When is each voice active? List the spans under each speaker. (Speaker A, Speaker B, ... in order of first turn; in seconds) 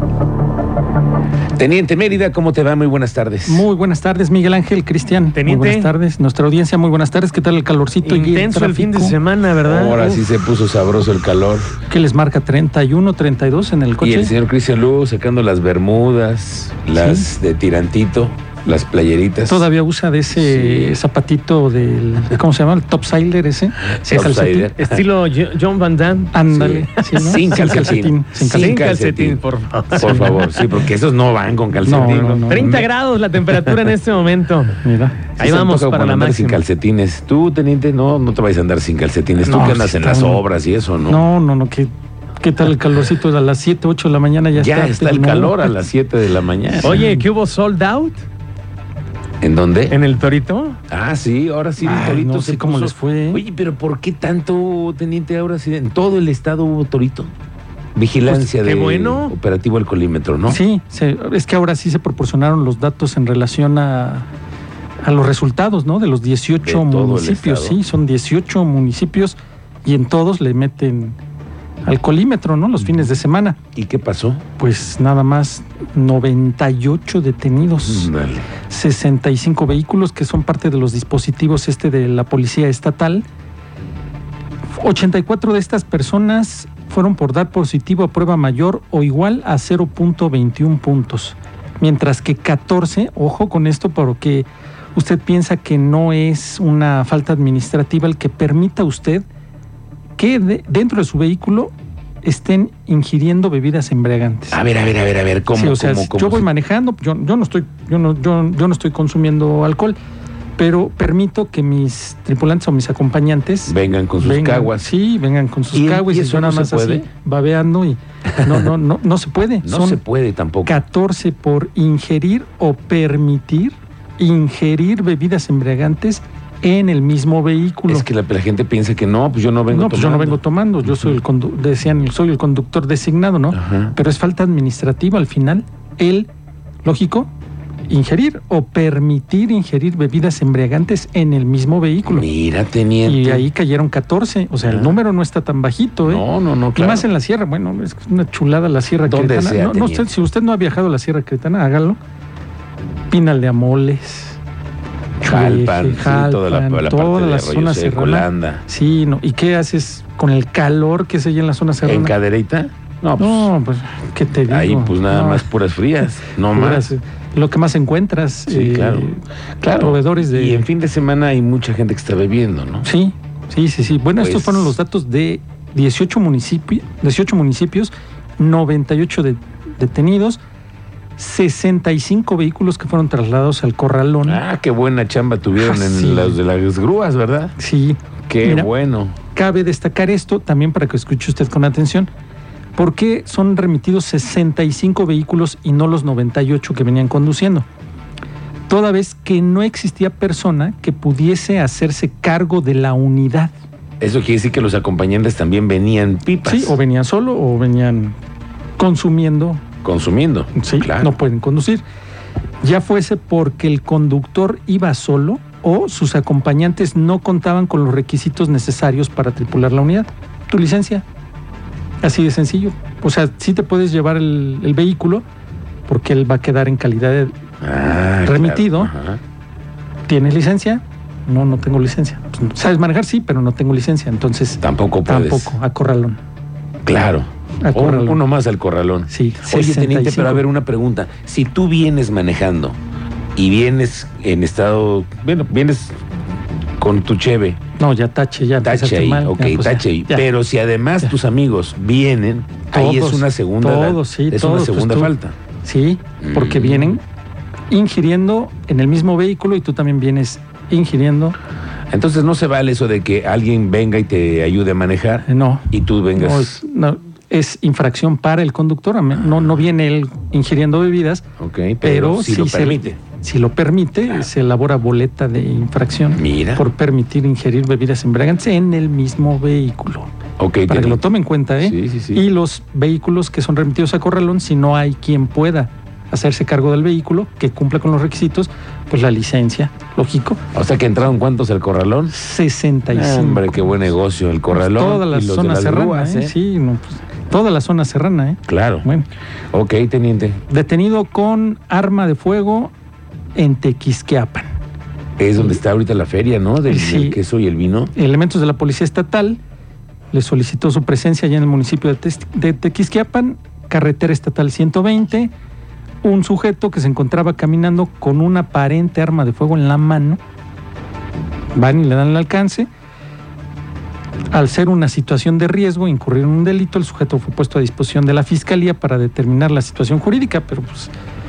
Speaker A: 1.6-3.6, 9.6-11.7, 14.0-19.7, 20.3-21.0, 24.0-25.0, 26.5-29.4, 29.9-32.9, 35.4-41.2, 44.5-47.1, 49.4-50.0, 50.9-57.3, 58.0-60.6, 66.5-67.8, 73.8-74.4, 77.8-78.5, 104.5-106.5, 113.7-114.9, 115.7-117.1, 119.6-120.8, 127.9-131.1, 133.5-134.0, 142.1-143.5, 144.6-145.0, 146.1-147.1, 149.1-150.1, 155.2-158.6, 161.8-163.5, 164.5-166.9, 168.5-169.1, 169.6-172.9, 174.2-174.8, 184.2-187.6, 188.3-189.2, 204.0-206.8, 209.8-211.1, 227.6-229.2, 234.6-235.6, 236.8-242.8, 243.4-246.0, 246.8-247.6, 248.6-255.3, 256.2-257.0, 261.9-266.6, 271.4-273.0, 276.1-276.6, 280.4-281.0, 281.6-282.2, 290.5-292.1, 292.9-296.4, 298.5-298.9, 299.5-300.4, 305.2-307.9
Speaker B: 3.5-9.2, 11.9-14.3, 16.9-17.3, 19.5-24.7, 26.3-28.9, 30.0-30.3, 31.8-32.9, 34.8-35.2, 39.5-40.4, 41.1-45.8, 46.7-47.2, 51.8-53.4, 60.5-64.3, 65.0-71.2, 71.8-73.6, 74.6-78.1, 78.7-83.2, 84.8-99.2, 100.2-104.6, 105.5-110.0, 110.6-120.0, 120.7-128.1, 129.7-136.3, 136.8-137.3, 137.9-142.3, 143.0-152.0, 153.1-154.4, 155.2-162.1, 163.2-165.5, 166.5-170.7, 172.8-180.4, 181.2-184.4, 185.6-186.4, 187.6-188.7, 189.3-192.1, 192.8-197.7, 198.7-203.5, 206.4-208.2, 208.8-209.6, 210.6-211.8, 212.6-221.1, 222.0-225.2, 225.9-227.3, 228.2-228.9, 230.1-236.2, 237.6-238.2, 239.1-240.4, 247.8-250.3, 252.7-257.0, 257.7-261.4, 265.3-271.3, 271.8-280.1, 280.7-290.4, 292.1-293.7, 294.5-299.1, 300.5-302.7, 303.4-304.5, 306.7-307.2, 307.9-309.4, 310.1-315.3, 316.0-320.2, 321.6-322.7, 324.3-330.9
Speaker C: 5.3-5.9, 8.0-10.3, 24.8-26.4, 28.4-30.6, 32.5-34.8, 35.4-36.6, 46.8-48.2, 49.9-50.8, 58.3-59.3